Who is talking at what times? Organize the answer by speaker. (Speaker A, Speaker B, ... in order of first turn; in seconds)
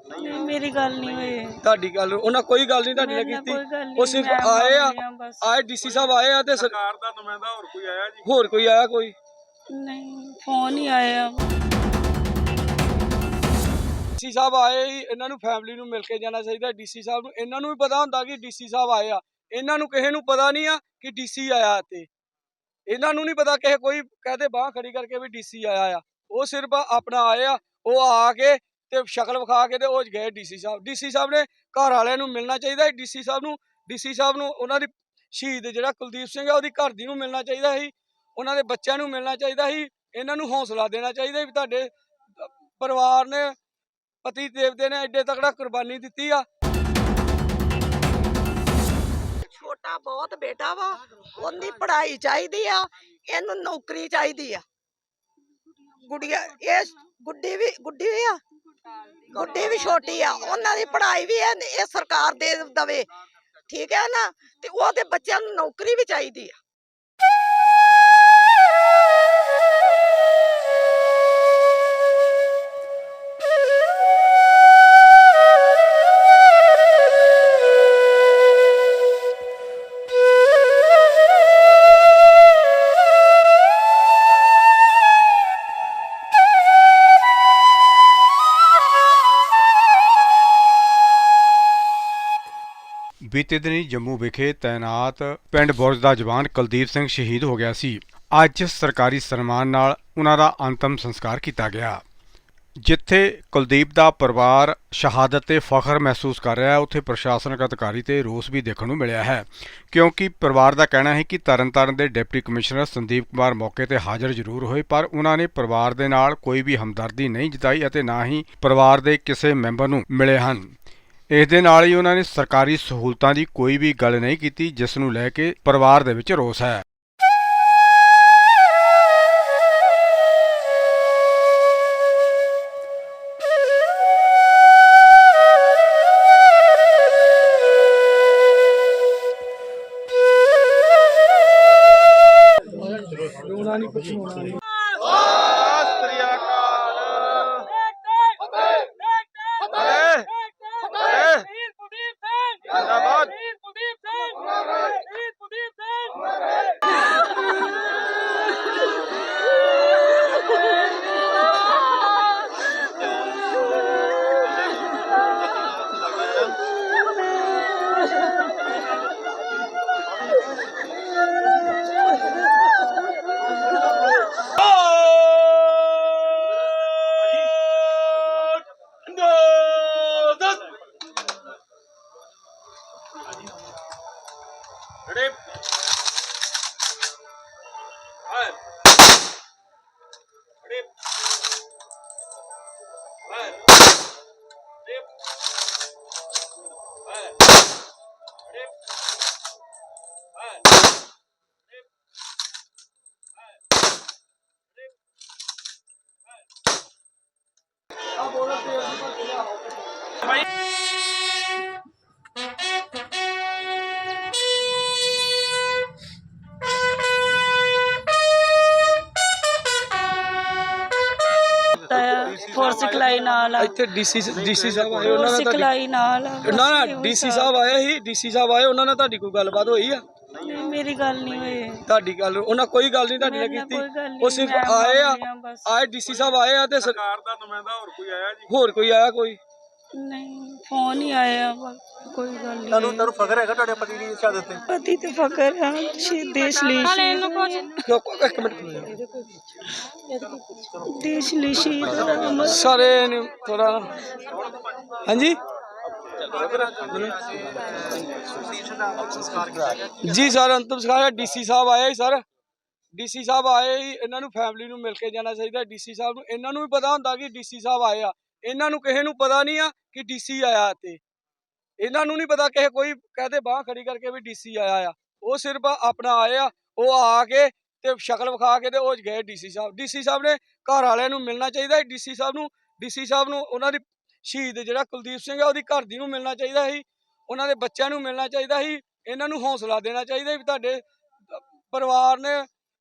Speaker A: 0.1-1.6, 2.9-5.5, 9.7-11.4, 221.7-223.8, 224.9-227.6, 230.4-231.8, 233.2-235.7, 239.9-243.5, 244.7-247.7, 250.7-252.7
Speaker B: 1.6-6.8, 8.2-9.1, 14.2-22.1, 22.9-43.5, 44.2-46.5, 143.3-144.5, 208.2-209.7, 223.5-225.7, 226.4-230.0, 231.8-237.0, 238.5-239.4, 247.8-248.9, 252.5-253.9, 255.0-255.4, 256.3-257.1, 260.0-262.2, 262.9-271.0, 271.8-290.8, 291.3-292.5
Speaker C: 6.8-8.2, 236.9-238.4
Speaker D: 49.4-54.6, 56.0-58.4, 59.3-63.1, 63.7-66.5
Speaker E: 93.2-102.0, 102.8-120.7, 121.3-126.8